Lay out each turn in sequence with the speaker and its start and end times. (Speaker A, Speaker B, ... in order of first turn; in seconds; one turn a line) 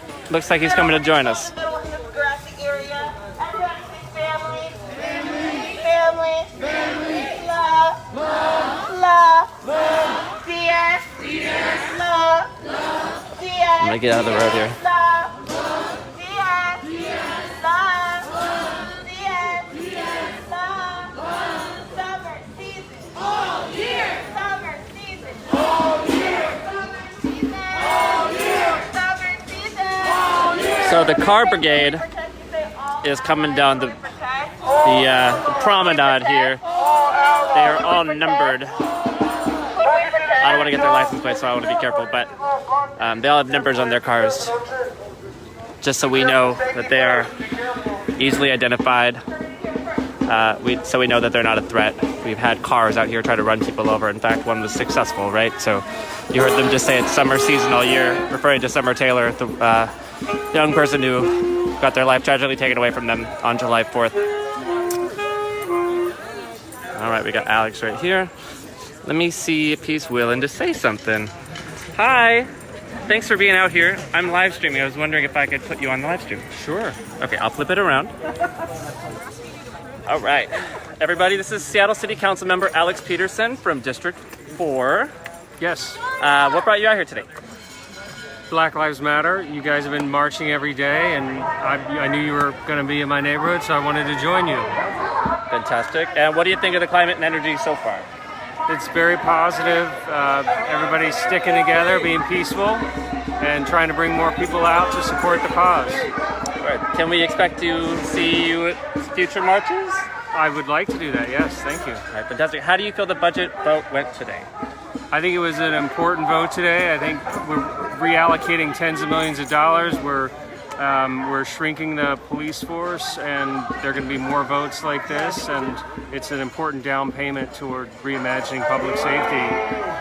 Speaker A: 0.3-1.5
Speaker B: 1.5-12.7
Speaker B: 13.3-30.8
Speaker A: 13.8-14.8
Speaker A: 30.8-32.0
Speaker B: 32.0-34.6
Speaker A: 33.0-34.0
Speaker A: 34.8-36.6
Speaker A: 37.5-38.8
Speaker A: 40.4-42.3
Speaker A: 43.0-44.5
Speaker A: 45.8-47.3
Speaker A: 48.2-49.2
Speaker A: 50.3-59.9
Speaker A: 60.5-64.2
Speaker A: 66.9-68.3
Speaker A: 69.0-71.3
Speaker A: 71.9-72.5
Speaker A: 73.0-78.1
Speaker C: 76.6-77.0
Speaker A: 80.0-85.1
Speaker C: 85.6-86.0
Speaker A: 86.2-87.3
Speaker C: 88.5-94.8
Speaker A: 95.5-98.1
Speaker C: 98.7-102.9
Speaker C: 103.4-106.1
Speaker A: 106.6-110.0
Speaker C: 110.3-112.0
Speaker A: 112.1-114.5
Speaker C: 115.1-129.6